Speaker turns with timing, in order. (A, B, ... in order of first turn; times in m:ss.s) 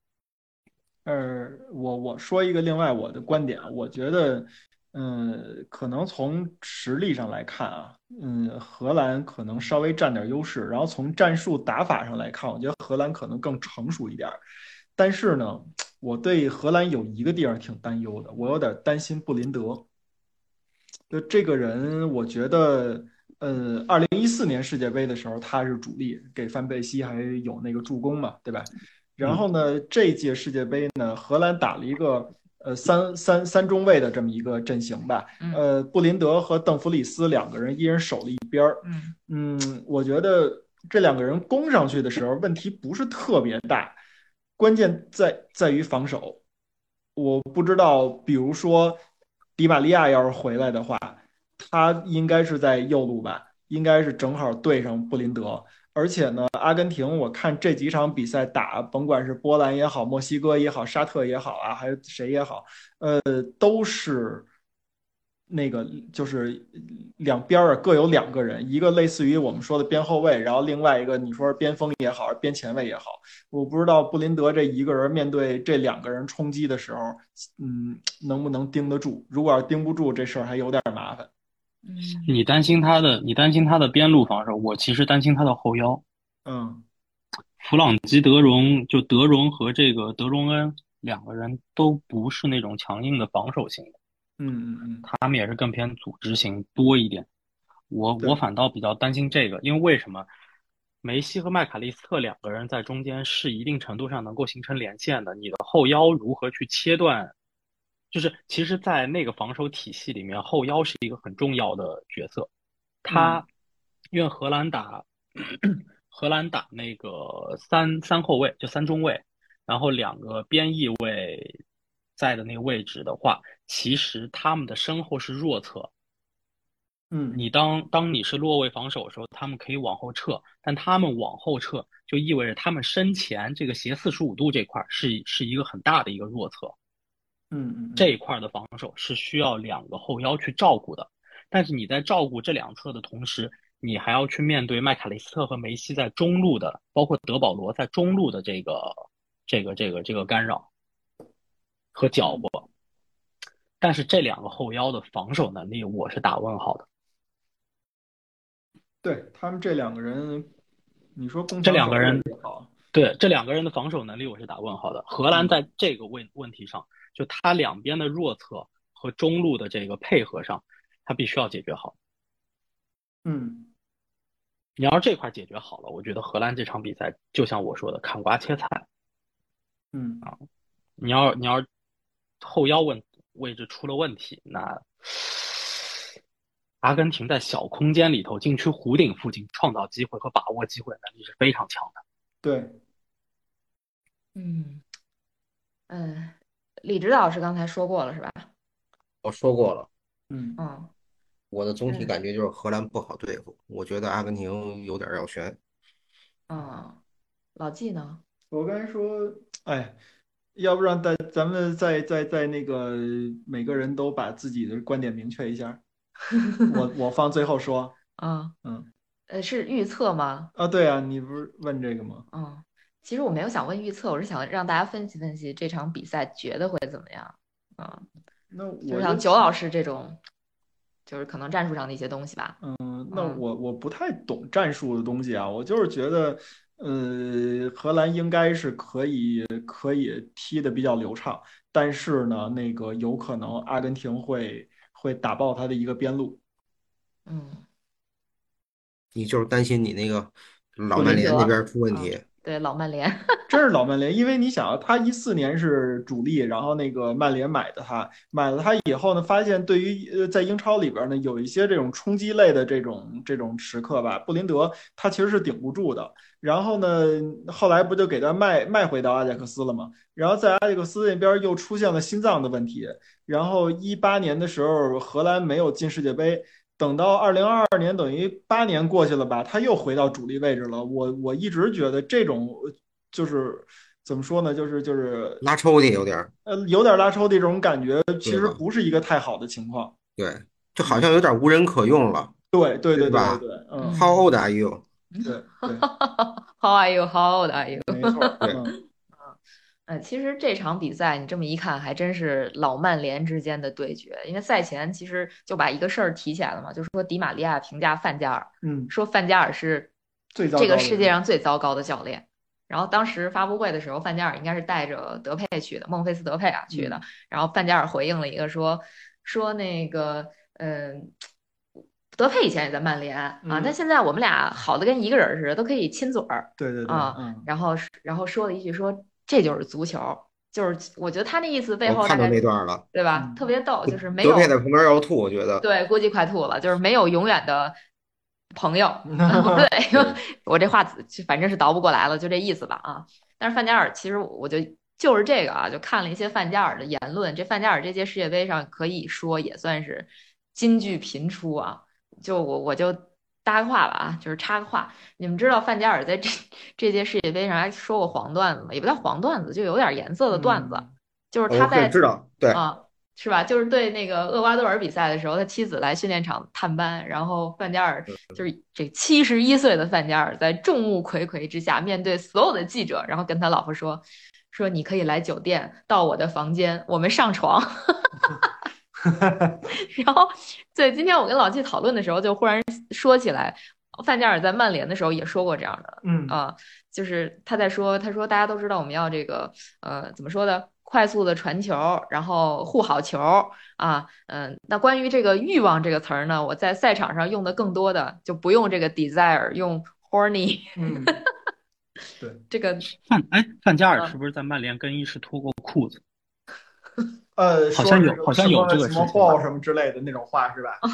0:01.0-0:14.4 A
0:15.0-0:19.9 A
0:21.1-0:44.0 A
0:38.8-0:39.2 B
0:44.6-0:46.4 A
0:47.2-0:49.0 A
0:49.6-1:04.5 A
1:05.5-1:21.3 A
1:21.8-1:22.4 B
1:22.3-1:26.0 C
1:26.5-1:26.8 A
1:27.6-1:34.0 C
1:34.4-1:35.1 A
1:35.0-1:37.3 C
1:37.9-1:40.3 C
1:41.0-1:47.3 C
1:48.1-1:52.5 C
1:53.0-1:53.5 C
1:53.1-1:53.4 A
1:54.1-2:01.6 C
2:02.2-2:05.9 C
2:07.1-2:07.4 A
2:07.3-2:16.8 C
2:17.5-2:18.1 A
2:18.0-2:30.7 C
2:32.0-2:32.7 C
2:33.8-2:36.9 C
2:39.0-2:40.5 A
2:41.2-2:42.7 A
2:41.6-2:42.3 C
2:42.9-2:52.0 C
2:45.3-2:45.6 A
2:53.2-2:53.7 A
2:54.8-2:58.9 C
2:59.9-3:00.3 A
3:01.0-3:01.7 C
3:02.4-3:05.9 C
3:06.8-3:12.0 C
3:12.4-3:12.8 A
3:14.4-3:14.8 B
3:15.9-3:18.5 B
3:19.2-3:19.9 D
3:20.3-3:20.6 A
3:20.6-3:20.9 B
3:21.5-3:25.6 D
3:21.9-3:22.1 B
3:26.5-3:27.0 B
3:27.6-3:28.2 B
3:28.5-3:30.0 A
3:30.6-3:35.8 A
3:36.7-3:38.0 A
3:38.2-3:38.5 B
3:38.6-3:38.9 A
3:39.3-3:40.5 B
3:40.6-3:42.3 A
3:42.3-3:48.1 B
3:48.5-3:49.5 A
3:48.9-3:50.2 B
3:51.1-3:52.6 B
3:52.6-4:06.4 A
3:53.1-3:53.4 B
4:07.3-4:07.6 B
4:09.2-4:12.2 D
4:11.0-4:11.4 A
4:11.0-4:13.5 B
4:13.5-4:45.4 A
4:45.4-4:46.3 D
4:46.4-4:50.0 A
4:48.2-4:48.6 D
4:50.2-4:52.3 D
4:52.5-4:54.1 A
4:52.9-4:53.4 D
4:53.8-4:54.2 B
4:53.9-4:54.8 D
4:55.1-4:59.4 B
4:55.2-4:55.9 A
4:57.8-4:58.8 A
4:59.9-5:09.9 B
5:08.6-5:08.9 A
5:10.4-5:11.1 A
5:10.6-5:21.1 B
5:16.7-5:17.0 A
5:22.1-5:34.5 B
5:23.4-5:23.8 A
5:26.6-5:27.5 A
5:31.9-5:32.8 D
5:33.1-5:33.4 A
5:33.9-5:35.6 D
5:35.6-5:37.8 B
5:38.5-6:18.5 B
5:39.1-5:39.7 A
6:00.3-6:00.9 A
6:01.5-6:02.6 D
6:19.0-6:19.6 A
6:19.7-6:41.2 B
6:26.0-6:26.4 A
6:40.8-6:41.2 A
6:42.5-6:42.9 B
6:43.1-6:46.0 C
6:47.4-6:50.8 A
6:47.7-6:49.4 C